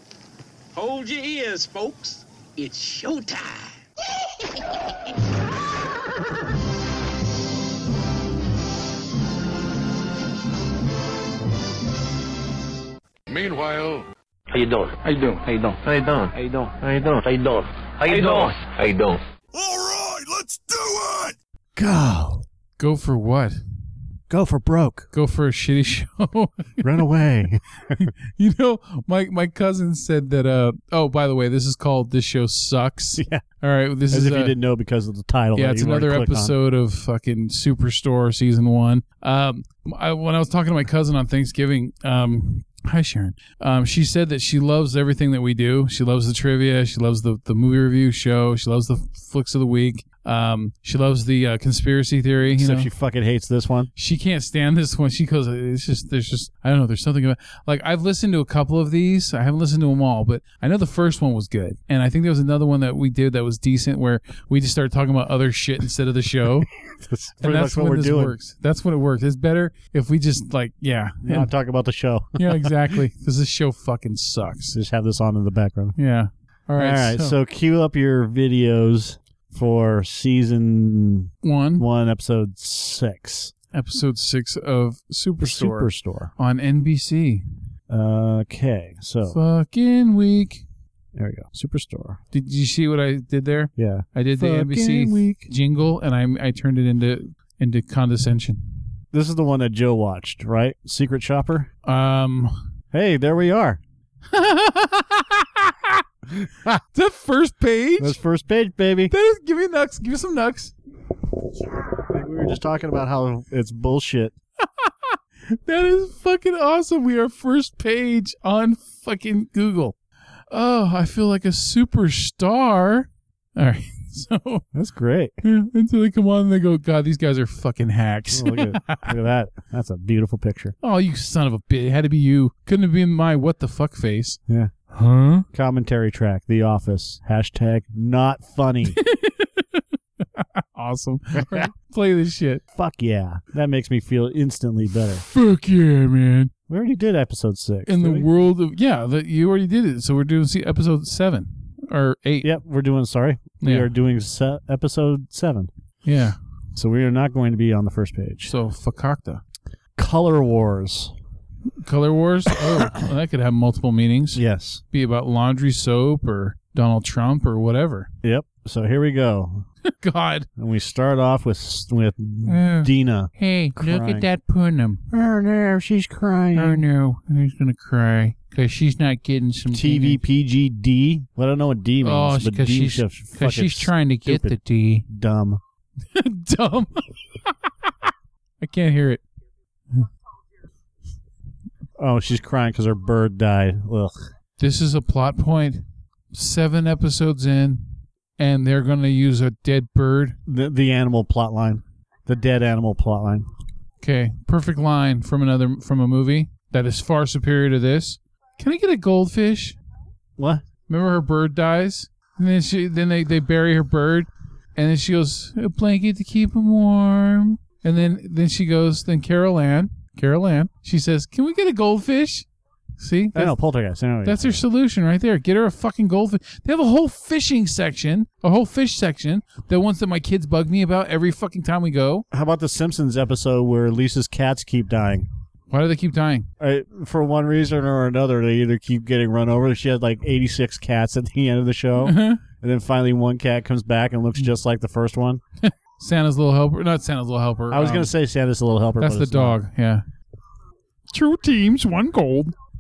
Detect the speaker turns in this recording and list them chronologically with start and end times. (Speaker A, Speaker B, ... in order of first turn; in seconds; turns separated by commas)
Speaker A: 0.8-3.8, Speaker B: 13.3-14.1, Speaker C: 14.5-19.2, Speaker B: 15.2-15.5, Speaker A: 18.1-18.6, Speaker B: 18.1-18.5, Speaker B: 19.5-21.4, Speaker D: 21.8-22.4, Speaker E: 22.8-23.6, Speaker D: 24.3-25.1, Speaker E: 25.1-27.1, Speaker D: 26.8-28.1, Speaker E: 27.9-34.6, Speaker D: 33.2-33.4, Speaker D: 34.1-36.5, Speaker E: 35.5-52.9, Speaker D: 52.5-53.9, Speaker E: 54.0-66.7, Speaker D: 66.9-68.4, Speaker E: 67.4-71.5, Speaker D: 71.2-72.7, Speaker E: 72.4-74.8, Speaker D: 74.7-76.0, Speaker E: 76.0-77.4, Speaker D: 76.8-83.5, Speaker E: 81.4-81.9, Speaker E: 83.7-87.4, Speaker D: 85.4-86.3, Speaker D: 87.9-89.4, Speaker E: 89.3-90.7, Speaker D: 91.2-92.2, Speaker E: 92.3-98.9, Speaker D: 93.8-95.5, Speaker D: 99.1-101.7, Speaker E: 101.9-102.5, Speaker D: 102.9-103.8, Speaker E: 104.3-106.0, Speaker D: 106.4-106.8, Speaker E: 106.9-108.2, Speaker D: 108.0-109.1, Speaker E: 109.1-110.7, Speaker D: 112.1-114.3, Speaker E: 114.6-120.0, Speaker E: 120.5-124.6, Speaker D: 124.7-125.3, Speaker E: 125.4-129.1, Speaker D: 128.3-130.7, Speaker E: 130.8-134.4, Speaker E: 134.9-135.5, Speaker D: 135.5-139.0, Speaker E: 138.9-142.6, Speaker D: 141.4-141.7, Speaker D: 142.7-145.2, Speaker E: 145.2-146.5, Speaker D: 146.7-148.3, Speaker E: 147.9-152.6, Speaker D: 152.4-155.7, Speaker E: 153.6-153.9, Speaker E: 156.0-156.4, Speaker D: 156.8-158.5, Speaker E: 158.5-159.4, Speaker D: 160.0-161.1, Speaker E: 161.8-168.1, Speaker D: 162.5-163.0, Speaker D: 164.3-164.8, Speaker D: 168.2-169.7, Speaker E: 169.8-170.5, Speaker D: 170.6-174.3, Speaker E: 172.4-175.0, Speaker D: 175.1-176.8, Speaker E: 176.6-180.2, Speaker D: 179.7-185.6, Speaker E: 182.0-185.1, Speaker E: 186.1-189.2, Speaker D: 192.0-194.2, Speaker E: 194.6-200.4, Speaker D: 200.5-203.5, Speaker E: 204.0-209.8, Speaker D: 210.4-210.6, Speaker E: 210.9-222.5, Speaker E: 223.0-223.6, Speaker D: 223.3-224.6, Speaker E: 224.2-232.2, Speaker D: 232.3-235.3, Speaker E: 235.7-236.5, Speaker D: 236.6-245.4, Speaker E: 242.0-242.4, Speaker E: 245.6-248.1, Speaker D: 247.7-249.6, Speaker E: 249.0-250.0, Speaker E: 251.1-252.6